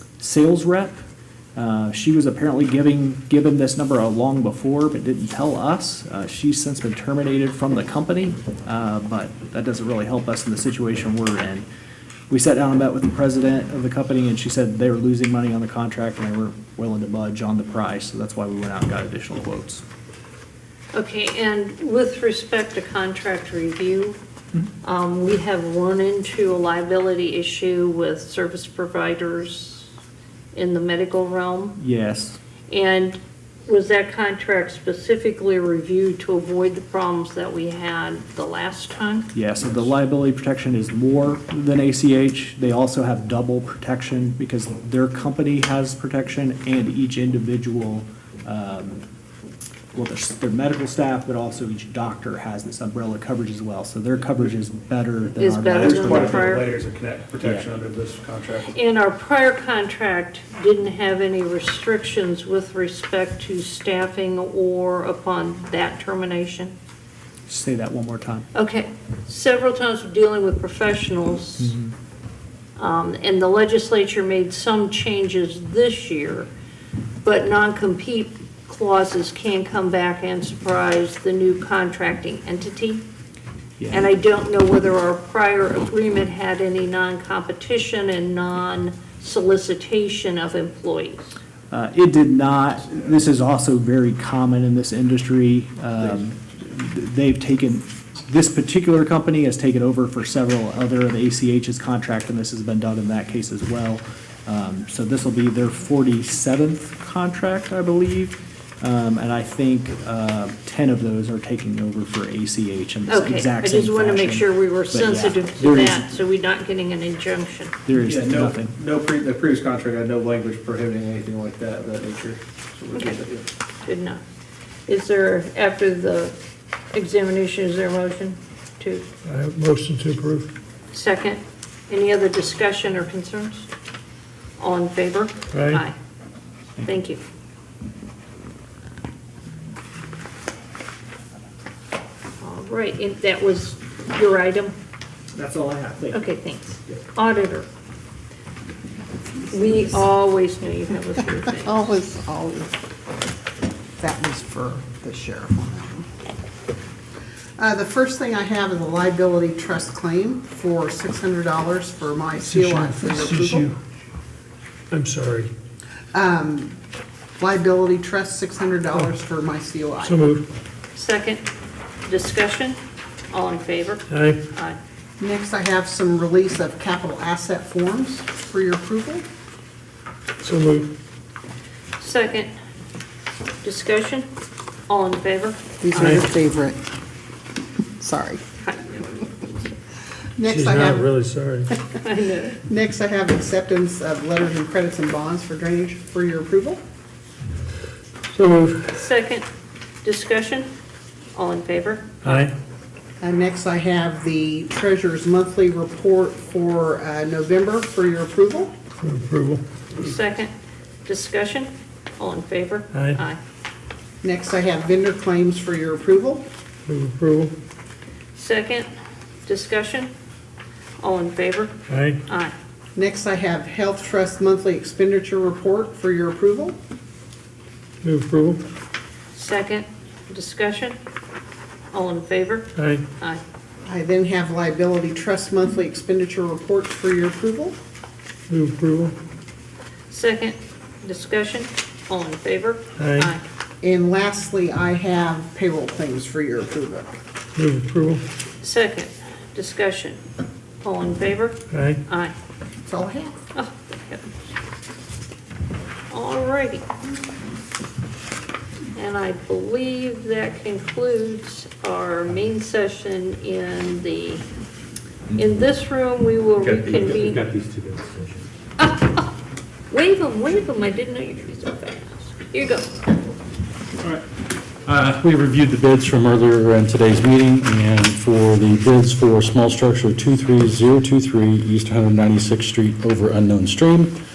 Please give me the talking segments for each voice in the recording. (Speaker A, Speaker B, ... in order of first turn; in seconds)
Speaker A: 0.2-1.0, 1.6-11.7, 12.3-19.8, 31.8-32.4, 39.3-49.0, 49.9-56.6, 57.4-57.7, 67.5-68.5, 71.6-71.9, 83.8-84.1, 91.7-116.0, 117.8-118.7, 145.3-146.2
Speaker B: 20.9-24.2, 24.8-29.9, 30.5-31.8, 32.7-39.3, 55.4-56.7, 58.7-66.7, 68.5-71.7, 72.8-76.5, 77.2-83.0, 83.9-91.4, 113.1-117.7, 122.9-123.2, 123.8-124.2, 124.9-126.3, 126.9-129.0, 130.9-133.7, 134.6-135.9, 136.8-137.2, 142.4-144.7, 146.1-147.7, 149.5-151.9, 170.9-171.5, 172.1-172.8, 173.3-174.8, 182.0-182.5, 183.6-184.3, 184.9-186.2, 188.6-189.7, 192.0-192.6, 198.9-199.4, 200.0-200.7, 201.3-202.5, 209.9-210.5, 211.0-213.4, 218.3-218.9, 219.4-220.1, 221.0-221.7, 222.3-222.5, 229.3-231.0, 231.9-233.4, 240.1-243.4, 248.6-250.2, 250.8-252.3, 253.5-254.3, 256.1-256.8, 258.9-264.4, 265.3-267.5, 268.8-269.3, 269.9-273.1
Speaker C: 55.8-58.7, 117.9-123.4, 266.6-268.1, 274.9-275.1
Speaker D: 129.2-130.5, 135.5-135.8, 162.4-163.7, 164.9-165.5, 170.0-170.4, 174.1-174.4, 180.4-180.9, 190.4-191.7, 198.3-198.9, 202.2-202.5, 209.0-209.6, 212.9-213.2, 216.9-217.5, 221.9-222.2, 228.0-228.6, 232.8-233.0, 238.5-239.1, 243.0-243.3, 247.6-248.2, 251.7-252.0
Speaker E: 151.6-152.8, 154.0-156.1, 157.6-163.7, 166.1-166.8, 167.4-170.2, 175.2-179.2, 185.8-186.8, 188.0-188.4, 190.4-191.1, 192.6-196.8, 203.2-208.7, 214.2-216.4, 222.9-226.8, 233.8-237.8, 243.8-247.1, 252.8-253.3
Speaker F: 274.9-284.1